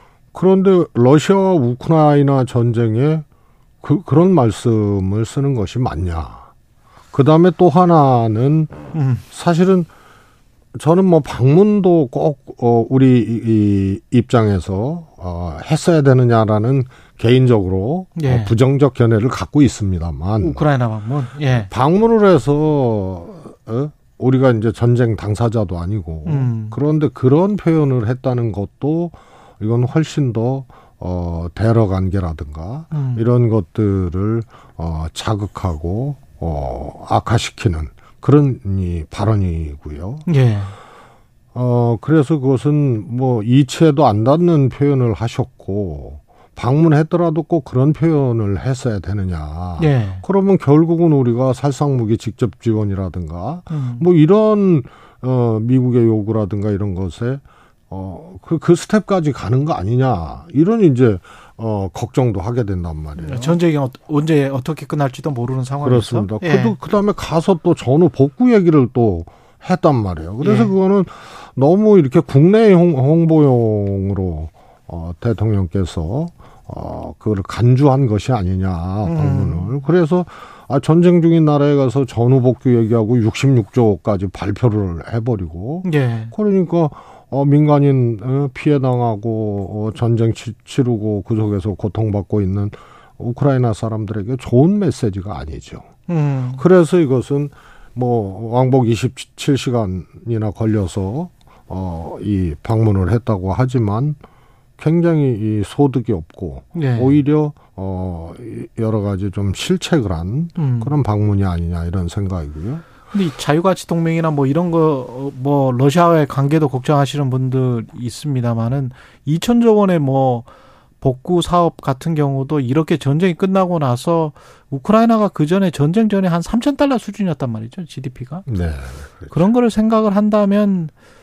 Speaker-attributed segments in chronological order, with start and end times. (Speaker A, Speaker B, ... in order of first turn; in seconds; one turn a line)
Speaker A: 0.3-3.2
Speaker A: 3.8-6.5
Speaker A: 7.1-8.7
Speaker B: 8.9-9.2
Speaker A: 9.3-9.9
Speaker A: 10.7-20.6
Speaker B: 18.1-18.5
Speaker B: 20.4-21.7
Speaker A: 21.5-40.3
Speaker B: 26.2-26.8
Speaker B: 32.9-33.2
Speaker B: 40.2-40.7
Speaker A: 41.5-63.6
Speaker B: 49.8-50.2
Speaker B: 53.7-54.1
Speaker B: 63.2-66.8
Speaker A: 65.8-95.8
Speaker B: 70.4-70.7
Speaker B: 79.0-79.8
Speaker B: 85.8-86.3
Speaker B: 96.1-96.6
Speaker A: 96.6-104.2
Speaker A: 104.8-112.8
Speaker B: 106.7-107.2
Speaker B: 110.6-111.0
Speaker B: 113.1-120.5
Speaker B: 121.0-128.4
Speaker A: 128.5-129.5
Speaker B: 129.3-130.9